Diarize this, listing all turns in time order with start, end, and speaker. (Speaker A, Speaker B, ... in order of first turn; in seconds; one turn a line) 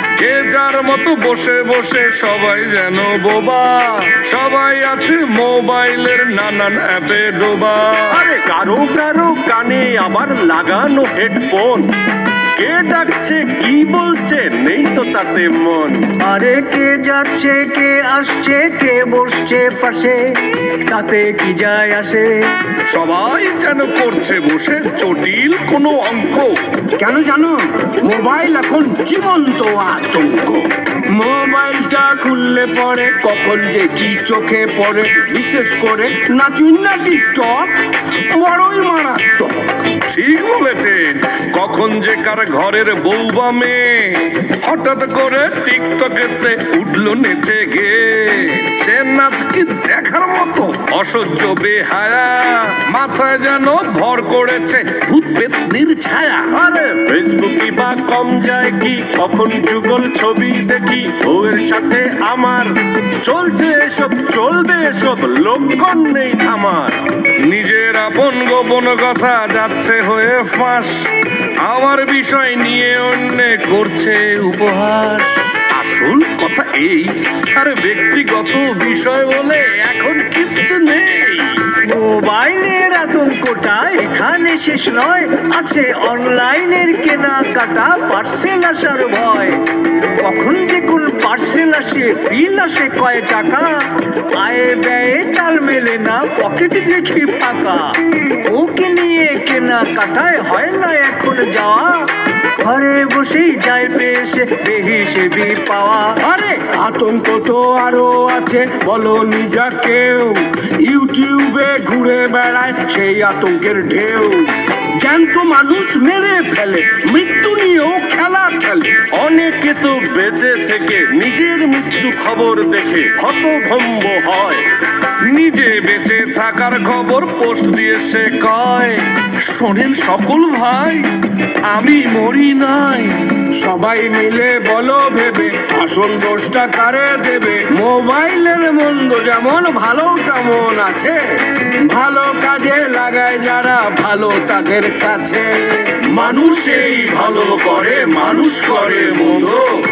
Speaker A: 0.2-8.2
Speaker B: 8.1-11.9
Speaker B: 12.5-16.1
Speaker C: 16.2-20.2
Speaker C: 20.9-22.3
Speaker A: 22.9-26.5
Speaker D: 27.0-30.6
Speaker D: 31.1-37.8
Speaker D: 38.4-39.9
Speaker A: 40.0-56.5
Speaker B: 56.5-67.1
Speaker A: 67.4-71.0
Speaker A: 71.6-81.6
Speaker C: 81.8-89.6
Speaker C: 90.2-106.1
Speaker D: 106.2-114.5
Speaker D: 115.0-119.0
Speaker B: 119.1-124.6
Speaker A: 125.2-131.1
Speaker A: 131.7-133.2
Speaker D: 133.6-146.4
Speaker A: 146.2-149.6
Speaker B: 146.4-147.5
Speaker B: 148.6-149.3